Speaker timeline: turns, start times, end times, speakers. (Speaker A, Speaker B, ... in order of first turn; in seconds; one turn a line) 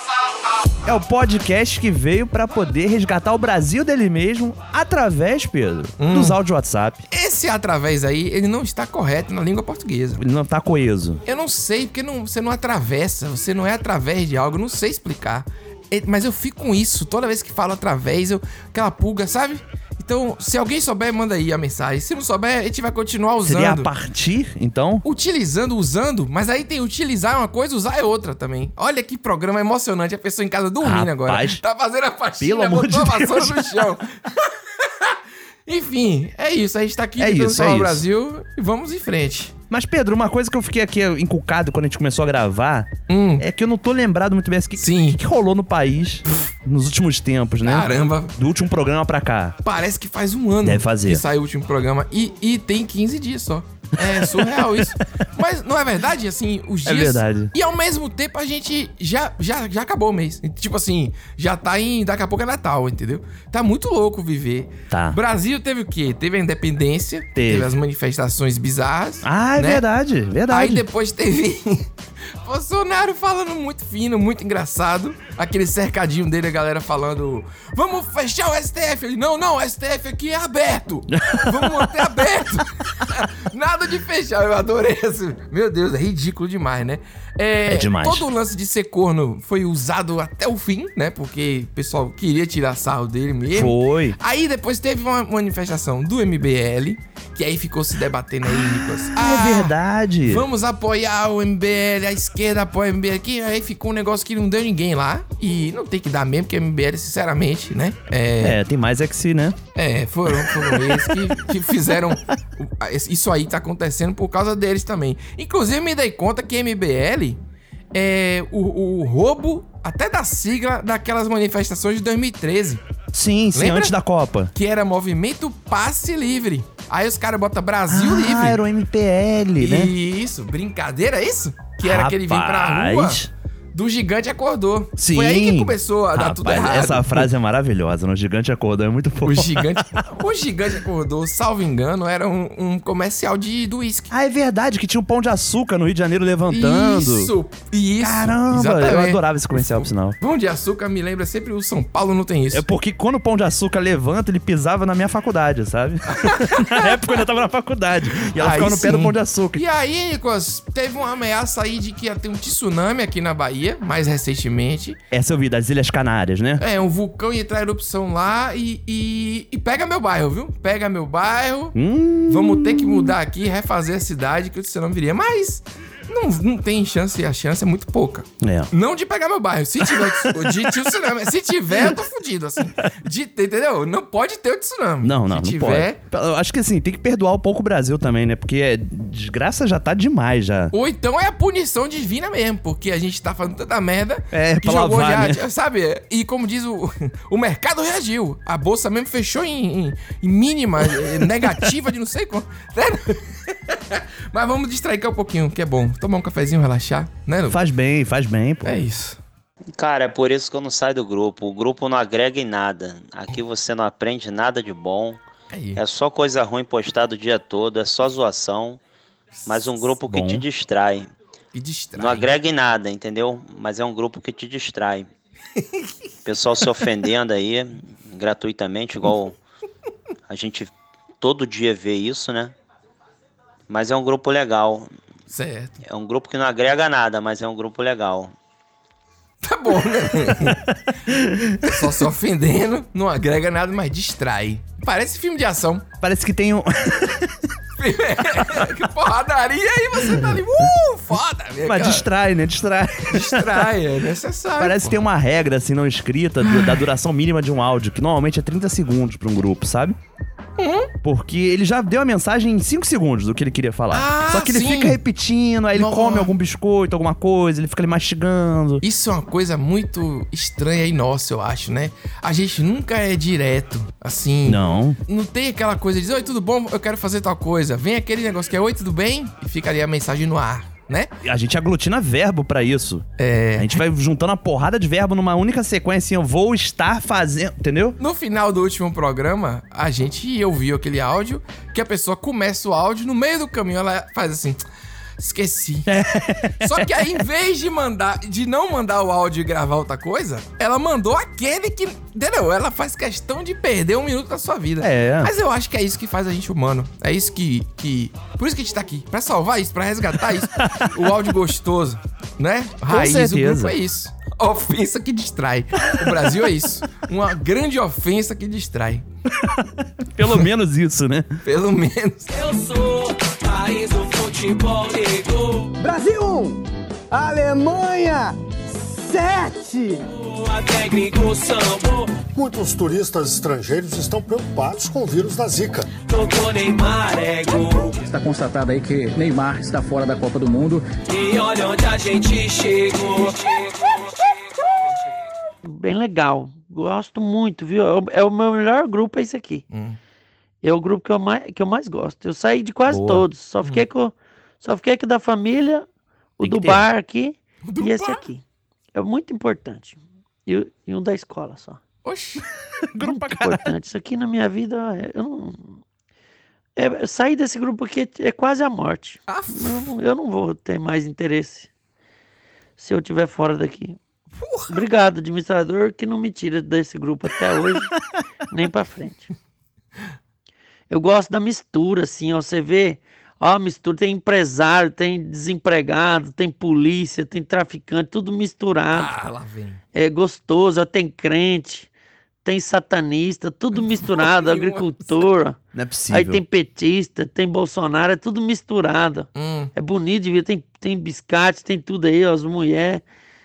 Speaker A: 0.8-7.0
Speaker B: 6.0-6.4
Speaker B: 7.1-10.2
Speaker A: 10.2-11.2
Speaker B: 11.3-23.9
Speaker A: 23.4-25.0
Speaker B: 25.1-39.5
Speaker A: 30.8-31.6
Speaker A: 32.4-33.8
Speaker A: 37.2-38.0
Speaker A: 39.7-49.6
Speaker B: 43.1-43.5
Speaker B: 44.8-45.2
Speaker B: 47.6-48.3
Speaker B: 49.6-69.8
Speaker A: 50.6-51.2
Speaker A: 54.3-54.6
Speaker A: 56.8-57.5
Speaker A: 64.9-65.2
Speaker A: 67.4-67.7
Speaker A: 69.2-70.8
Speaker B: 70.5-71.9
Speaker B: 72.4-108.6
Speaker A: 81.3-81.9
Speaker A: 87.7-88.3
Speaker A: 93.5-94.2
Speaker A: 99.1-100.5
Speaker A: 108.4-109.6
Speaker B: 109.8-117.4
Speaker A: 110.3-111.3
Speaker B: 117.9-122.8
Speaker A: 123.1-124.5
Speaker B: 123.5-123.9
Speaker B: 124.5-128.6
Speaker A: 127.9-129.9
Speaker B: 129.6-133.2
Speaker A: 131.8-133.3
Speaker B: 133.7-137.3
Speaker A: 135.0-140.0
Speaker B: 139.2-144.1
Speaker A: 144.1-147.3
Speaker B: 146.5-152.6
Speaker A: 148.0-150.2
Speaker A: 152.5-159.6
Speaker B: 156.1-157.2
Speaker B: 158.3-165.0
Speaker A: 165.1-166.6
Speaker B: 166.6-171.8
Speaker A: 171.8-173.2
Speaker B: 172.3-186.0
Speaker A: 178.4-178.7
Speaker A: 180.0-180.7
Speaker A: 185.0-190.7
Speaker B: 190.7-207.6
Speaker A: 194.3-195.4
Speaker A: 207.5-208.8
Speaker B: 208.7-209.2
Speaker C: 209.8-215.2
Speaker B: 215.5-215.8
Speaker C: 215.8-218.8
Speaker B: 219.5-219.7
Speaker C: 219.5-221.1
Speaker A: 220.1-220.4
Speaker B: 221.5-222.4
Speaker C: 222.0-225.1
Speaker C: 226.2-229.3
Speaker C: 230.3-232.5
Speaker C: 233.7-234.9
Speaker B: 235.3-235.8
Speaker C: 235.8-238.3
Speaker B: 239.4-240.6
Speaker B: 241.6-245.8
Speaker A: 246.0-247.3
Speaker B: 247.8-252.1
Speaker A: 251.7-253.7
Speaker B: 253.1-255.0
Speaker A: 254.6-260.0
Speaker B: 256.4-256.9
Speaker B: 260.6-260.9
Speaker A: 261.0-268.8
Speaker B: 263.9-265.0
Speaker B: 265.8-266.3
Speaker B: 268.8-281.1
Speaker A: 274.5-275.0
Speaker A: 281.2-283.1
Speaker B: 283.2-283.8
Speaker A: 283.6-288.0
Speaker B: 288.0-294.6
Speaker B: 295.2-295.9
Speaker A: 295.9-297.1
Speaker B: 296.6-319.1
Speaker A: 304.8-305.3
Speaker A: 312.9-313.8
Speaker A: 319.4-321.3
Speaker B: 321.4-322.3
Speaker D: 322.3-325.7
Speaker E: 325.8-330.0
Speaker D: 330.1-332.2
Speaker F: 332.4-335.9
Speaker D: 336.0-338.0
Speaker G: 338.1-340.9
Speaker D: 341.1-344.3
Speaker H: 345.6-349.6
Speaker B: 349.7-350.0
Speaker H: 350.6-355.9
Speaker A: 352.9-353.2
Speaker H: 356.4-361.8
Speaker A: 356.4-356.9
Speaker B: 357.6-358.2
Speaker B: 362.0-362.4
Speaker A: 362.9-363.7
Speaker H: 363.0-365.8
Speaker H: 366.8-371.7
Speaker B: 369.3-369.8
Speaker H: 372.8-374.0
Speaker B: 374.4-374.7
Speaker H: 374.7-377.9
Speaker H: 378.5-379.3
Speaker H: 380.9-389.1
Speaker B: 388.9-389.8
Speaker H: 389.9-391.9
Speaker H: 392.4-395.6
Speaker B: 393.9-395.2
Speaker A: 395.7-396.4
Speaker H: 396.1-403.0
Speaker B: 399.4-399.7